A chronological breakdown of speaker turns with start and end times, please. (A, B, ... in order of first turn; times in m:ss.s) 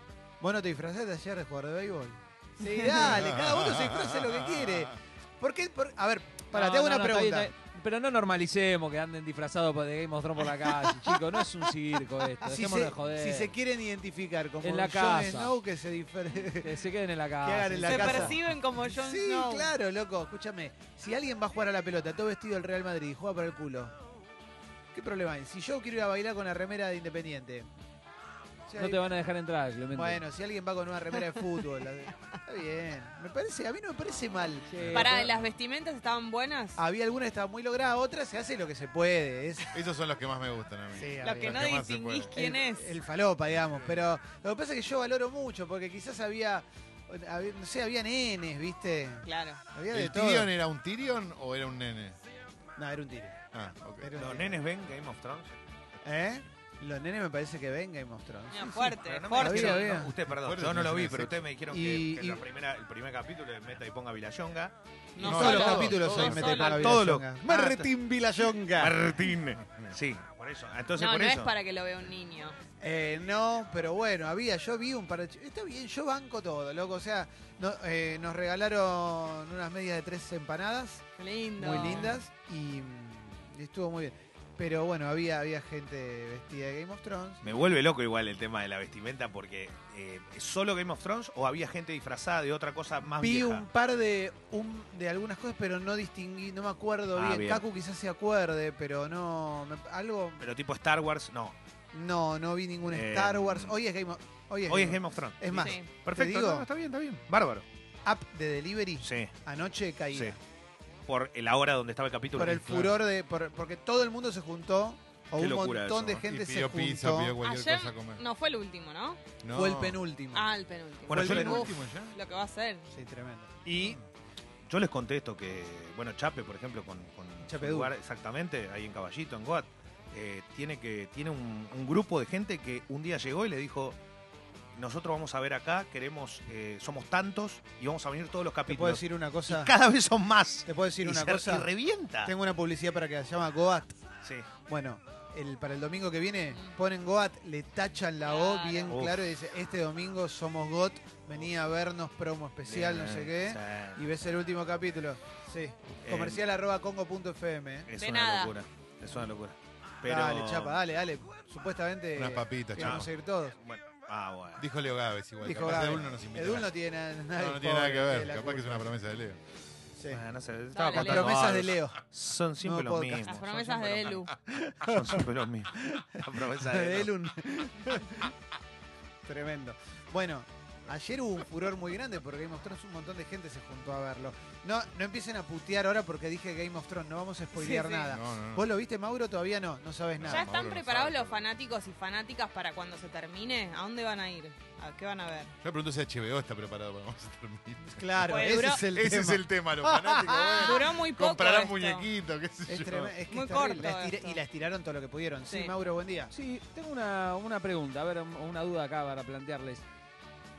0:00.4-0:07.5 A
0:03.0-0:04.9 B
0:06.5-0:13.5 C
0:12.4-0:16.8 A
0:14.6-0:15.6 C
0:16.6-0:18.3 C
0:17.4-0:23.9 A
0:17.8-0:19.7 D
0:24.9-0:27.7 A
0:28.7-0:29.0 A
0:28.8-0:30.2 C
0:29.9-0:35.3 A
0:34.7-0:35.1 C
0:34.8-0:35.4 B
0:34.9-0:36.8 D
0:36.8-0:39.7 A
0:39.7-0:42.3 B
0:41.0-0:41.6 A
0:41.2-0:43.0 D
0:42.3-0:50.5 A
0:43.5-0:44.0 B
0:49.2-0:49.6 D
0:49.9-0:52.2 B
0:52.8-0:53.4 A
0:53.5-0:54.1 B
0:54.0-0:54.6 A
0:54.2-0:55.5 E
0:56.0-1:00.1 A
0:58.5-0:59.9 D
0:58.9-1:04.8 E
1:00.2-1:01.4 B
1:01.7-1:02.4 A
1:05.2-1:07.0 D
1:05.2-1:06.5 B
1:05.2-1:09.0 A
1:05.4-1:07.9 E
1:08.8-1:11.5 E
1:11.0-1:12.6 D
1:12.8-1:21.0 A
1:21.2-1:22.2 D
1:21.6-1:27.4 A
1:27.4-1:33.6 E
1:33.2-1:40.4 A
1:37.2-1:37.6 E
1:40.4-1:41.6 E
1:41.9-1:46.7 A
1:42.9-1:43.8 E
1:44.7-1:47.6 E
1:45.6-1:45.9 D
1:48.0-1:50.4 A
1:49.0-1:49.3 E
1:51.1-1:53.0 E
1:52.4-1:57.4 A
1:55.4-1:56.2 E
1:56.3-1:58.2 B
1:57.4-1:59.2 D
1:59.4-2:00.0 B
1:59.5-2:00.5 A
2:00.3-2:02.9 D
2:01.1-2:01.7 E
2:01.1-2:02.2 B
2:01.1-2:01.7 A
2:02.9-2:04.0 A
2:04.7-2:14.0 E
2:07.5-2:07.9 A
2:14.8-2:22.3 E
2:18.7-2:19.7 A
2:20.7-2:21.7 A
2:22.2-2:24.0 A
2:24.7-2:37.9 A
2:28.2-2:28.9 D
2:28.9-2:29.2 E
2:32.7-2:34.0 E
2:36.0-2:36.4 E
2:37.9-2:40.8 E
2:38.0-2:38.5 D
2:40.0-2:43.6 A
2:42.2-2:43.1 B
2:42.8-2:44.7 E
2:44.6-2:46.7 B
2:45.4-2:48.9 A
2:47.3-2:49.4 B
2:50.0-2:50.2 A
2:50.1-2:54.3 E
2:50.7-2:51.4 D
2:50.9-2:52.0 A
2:52.6-2:53.8 A
2:53.2-2:54.3 D
2:54.5-2:58.3 A
2:54.8-2:57.1 E
2:59.3-3:10.5 A
3:07.6-3:08.1 D
3:08.1-3:08.7 B
3:10.2-3:11.4 B
3:10.3-3:15.5 D
3:15.6-3:23.1 B
3:17.8-3:20.8 A
3:18.3-3:18.8 D
3:20.6-3:22.1 D
3:22.7-3:26.3 A
3:23.3-3:24.4 D
3:26.3-3:29.8 C